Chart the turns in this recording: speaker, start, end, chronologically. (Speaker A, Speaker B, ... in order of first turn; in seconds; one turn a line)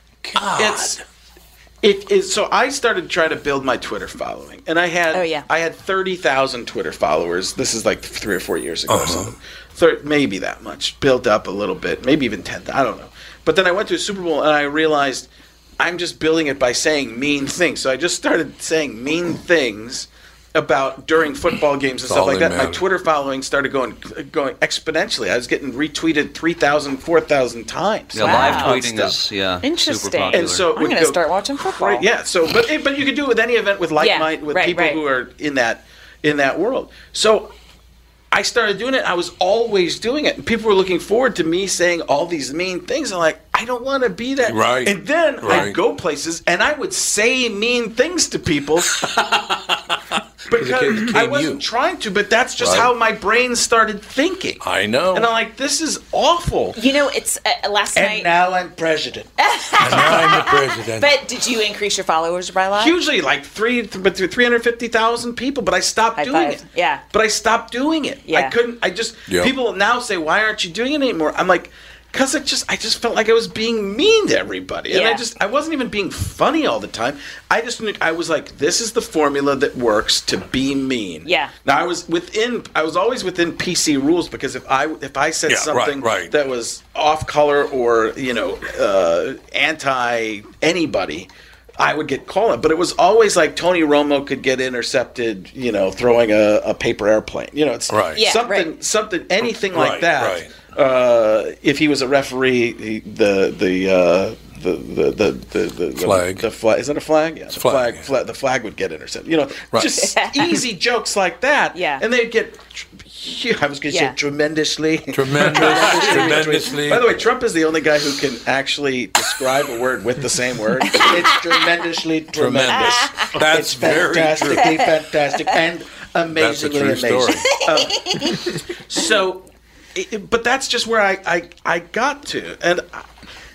Speaker A: 0.2-1.0
Speaker B: 0.5-1.0
Speaker B: 1.8-15.3
Speaker C: 5.1-5.5
Speaker A: 8.9-9.3
Speaker B: 15.8-29.2
Speaker A: 22.1-22.8
Speaker D: 28.1-30.7
Speaker C: 28.2-28.8
Speaker C: 29.6-32.0
Speaker B: 30.3-37.5
Speaker C: 34.0-35.0
Speaker B: 38.3-49.1
Speaker A: 44.4-45.8
Speaker B: 50.5-54.6
Speaker A: 50.5-51.6
Speaker A: 52.6-52.9
Speaker A: 54.6-55.3
Speaker B: 55.1-56.8
Speaker C: 56.8-58.3
Speaker B: 57.9-59.3
Speaker C: 59.4-62.9
Speaker A: 59.8-61.1
Speaker B: 59.9-60.2
Speaker B: 62.7-133.0
Speaker C: 66.2-67.0
Speaker C: 68.3-68.5
Speaker A: 69.3-69.5
Speaker C: 74.9-75.2
Speaker C: 81.2-81.5
Speaker A: 85.5-86.3
Speaker A: 97.9-98.2
Speaker C: 98.1-98.7
Speaker A: 99.7-100.5
Speaker A: 106.0-106.5
Speaker A: 107.5-108.1
Speaker C: 110.1-110.6
Speaker C: 111.7-112.0
Speaker C: 113.9-114.1
Speaker A: 115.1-117.2
Speaker C: 115.6-116.3
Speaker C: 120.8-121.2
Speaker A: 122.3-124.8
Speaker C: 122.7-123.3
Speaker A: 126.3-127.5
Speaker C: 127.6-128.4